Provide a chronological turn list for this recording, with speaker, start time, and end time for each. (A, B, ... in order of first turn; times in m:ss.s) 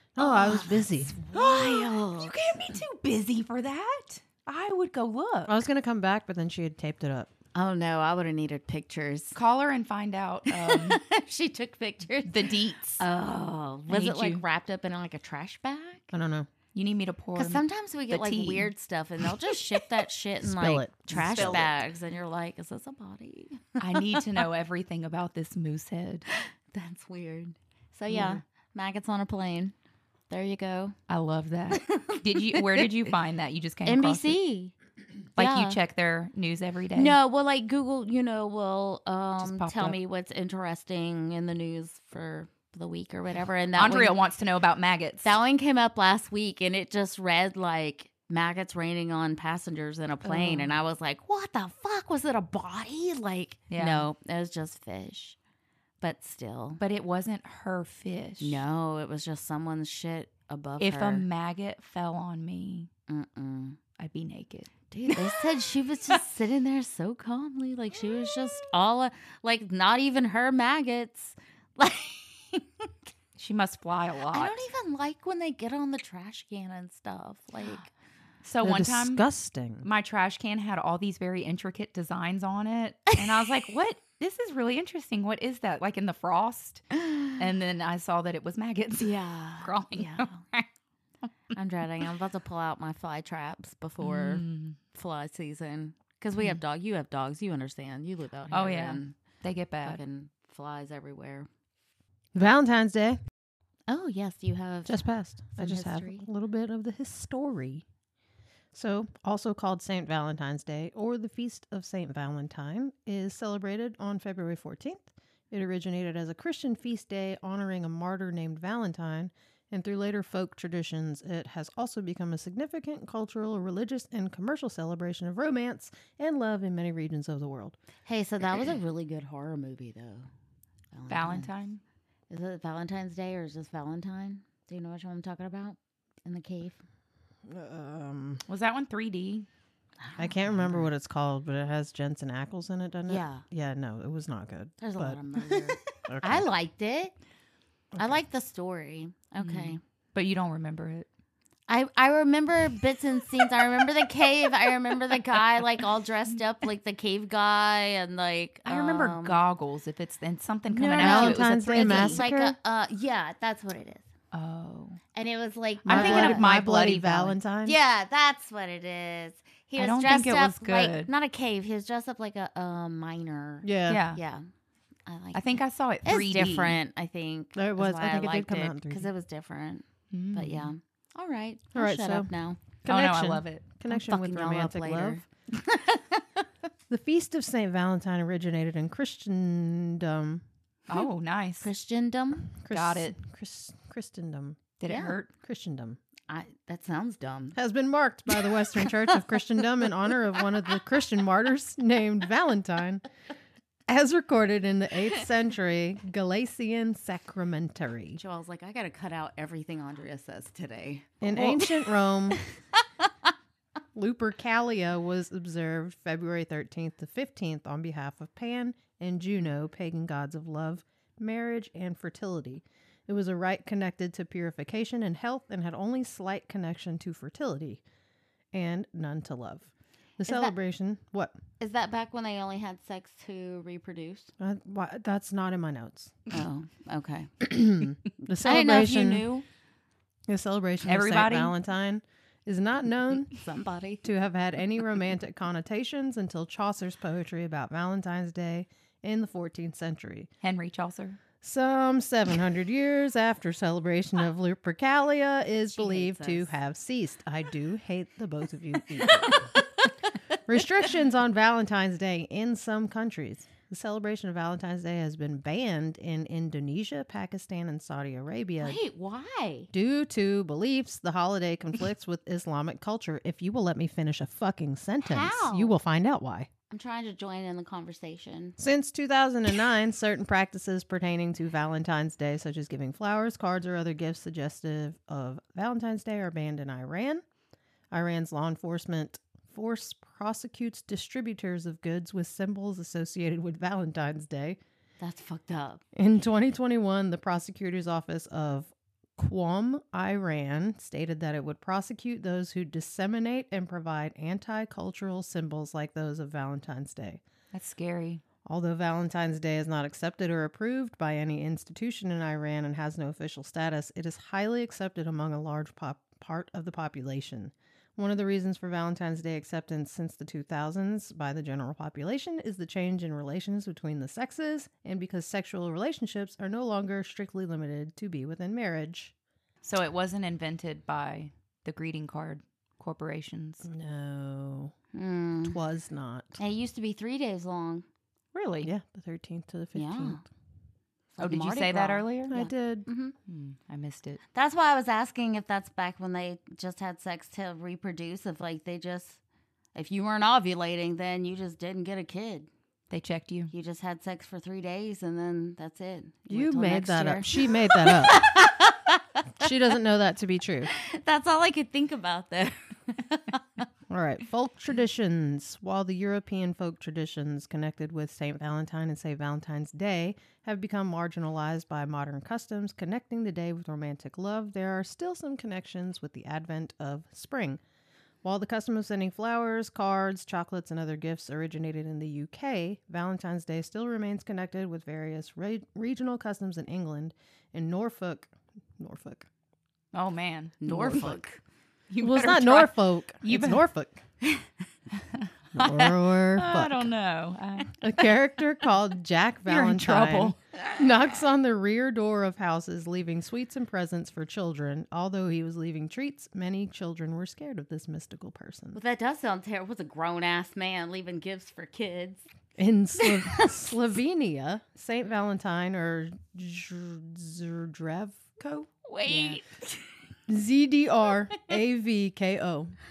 0:00.2-0:01.2 A
0:00.2-0:02.4 B
0:01.3-0:05.6 C
0:05.5-0:07.3 A
0:07.6-0:09.4 B
0:09.4-0:11.0 C
0:10.5-0:16.1 B
0:12.2-0:13.0 C
0:13.9-0:14.4 C
0:16.1-0:16.5 A
0:16.7-0:18.7 C
0:17.4-0:24.4 B
0:20.4-0:21.7 A
0:21.2-0:21.7 C
0:23.8-0:26.2 C
0:26.3-0:29.7 B
0:28.1-0:28.4 C
0:30.3-0:31.0 B
0:31.1-0:34.4 C
0:31.7-0:33.1 B
0:33.8-0:34.7 B
0:35.4-0:35.8 B
0:35.4-0:37.2 C
0:37.0-0:44.2 B
0:39.4-0:40.0 C
0:43.8-0:45.3 C
0:45.2-0:55.4 B
0:50.2-0:50.8 C
0:53.7-0:54.1 C
0:56.0-0:56.8 B
0:56.8-0:58.6 C
0:58.4-1:01.2 B
1:00.8-1:02.9 C
1:03.1-1:03.8 B
1:04.0-1:05.4 C
1:04.9-1:12.9 B
1:13.4-1:14.6 C
1:14.3-1:17.9 B
1:18.4-1:19.2 C
1:18.6-1:19.9 A
1:19.8-1:30.6 C
1:23.1-1:23.4 B
1:29.0-1:30.4 B
1:31.5-1:39.2 B
1:34.0-1:34.8 C
1:38.5-1:40.0 C
1:39.8-1:41.5 B
1:42.3-1:43.2 A
1:43.9-1:46.2 B
1:44.9-1:47.8 A
1:48.7-2:07.8 A
2:08.0-2:10.3 B
2:10.9-2:11.5 B
2:11.1-2:11.8 C
2:12.3-2:16.8 B
2:17.5-2:18.4 A
2:18.5-2:19.5 C
2:20.0-2:20.9 B
2:20.2-2:25.2 A
2:23.1-2:23.4 B
2:24.8-2:27.1 B
2:26.0-2:26.5 A
2:28.0-2:29.8 B
2:29.4-2:31.1 C
2:31.7-2:39.4 B
2:38.7-2:42.2 C
2:40.7-2:42.6 A
2:40.9-2:44.1 B
2:44.3-2:45.0 C
2:45.1-2:46.4 B
2:45.8-2:47.4 C
2:45.9-2:47.8 A
2:47.6-2:54.5 B
2:49.8-2:51.1 C
2:53.6-2:54.0 A
2:53.9-2:54.2 C
2:55.1-2:55.5 B
2:55.3-2:56.8 C
2:56.0-3:02.6 B
2:57.6-2:59.1 A
3:00.1-3:00.7 C
3:01.7-3:02.3 A
3:02.8-3:05.2 A
3:02.9-3:03.6 C
3:03.9-3:06.2 B
3:06.9-3:10.4 A
3:10.9-3:11.7 C
3:11.6-3:12.5 B
3:12.5-3:14.7 A
3:12.7-3:13.2 C
3:14.8-3:15.3 C
3:14.9-3:15.1 B
3:15.4-3:16.0 A
3:16.3-3:17.6 B
3:17.6-3:23.0 A
3:18.3-3:19.0 B
3:23.9-3:28.2 A
3:28.2-3:31.7 B
3:31.2-3:32.4 A
3:34.0-3:47.8 A
3:48.5-3:51.4 A
3:50.2-3:50.5 B
3:51.6-3:54.3 B
3:54.4-3:56.2 A
3:56.3-3:57.3 B
3:57.4-3:59.2 A
3:58.4-3:59.4 B
4:00.3-4:03.3 A
4:00.8-4:01.5 C
4:03.4-4:04.0 B
4:04.0-4:10.3 A
4:10.4-4:11.2 C
4:11.4-4:19.5 A
4:15.7-4:16.5 B
4:19.0-4:19.9 B
4:20.5-4:28.8 A
4:28.6-4:29.7 B
4:29.7-4:36.5 A
4:35.0-4:35.8 B
4:36.7-4:38.6 B
4:38.6-4:47.2 A
4:47.9-4:54.6 A
4:55.0-4:55.8 B
4:56.0-5:07.2 A
5:07.5-5:08.2 C
5:08.4-5:29.1 A
5:29.6-5:33.7 C
5:33.6-5:34.7 A
5:34.9-5:35.6 B
5:35.4-5:36.4 A
5:36.4-5:37.9 B
5:38.3-5:38.7 C
5:38.6-5:40.2 A
5:39.8-5:40.2 B
5:41.1-5:43.1 B
5:41.2-5:42.4 C
5:42.3-5:42.9 A
5:43.3-5:44.2 C
5:44.3-5:49.2 B
5:49.8-5:52.5 B
5:52.9-5:53.5 C
5:53.5-5:59.5 B
5:56.3-5:58.3 A
5:59.4-6:00.7 A
6:00.7-6:03.6 B
6:03.9-6:17.6 A
6:18.2-6:29.3 A
6:29.9-6:31.2 C
6:30.6-6:31.4 B
6:31.9-6:33.6 C
6:32.0-6:34.0 A
6:35.1-6:35.7 C
6:35.5-6:36.9 A
6:36.3-6:37.8 C
6:37.8-6:48.8 A
6:39.5-6:40.4 C
6:48.8-6:52.2 B
6:52.6-6:58.7 A
6:53.0-6:53.5 B
6:58.8-6:59.9 B
6:59.0-6:59.4 C
7:00.3-7:02.8 A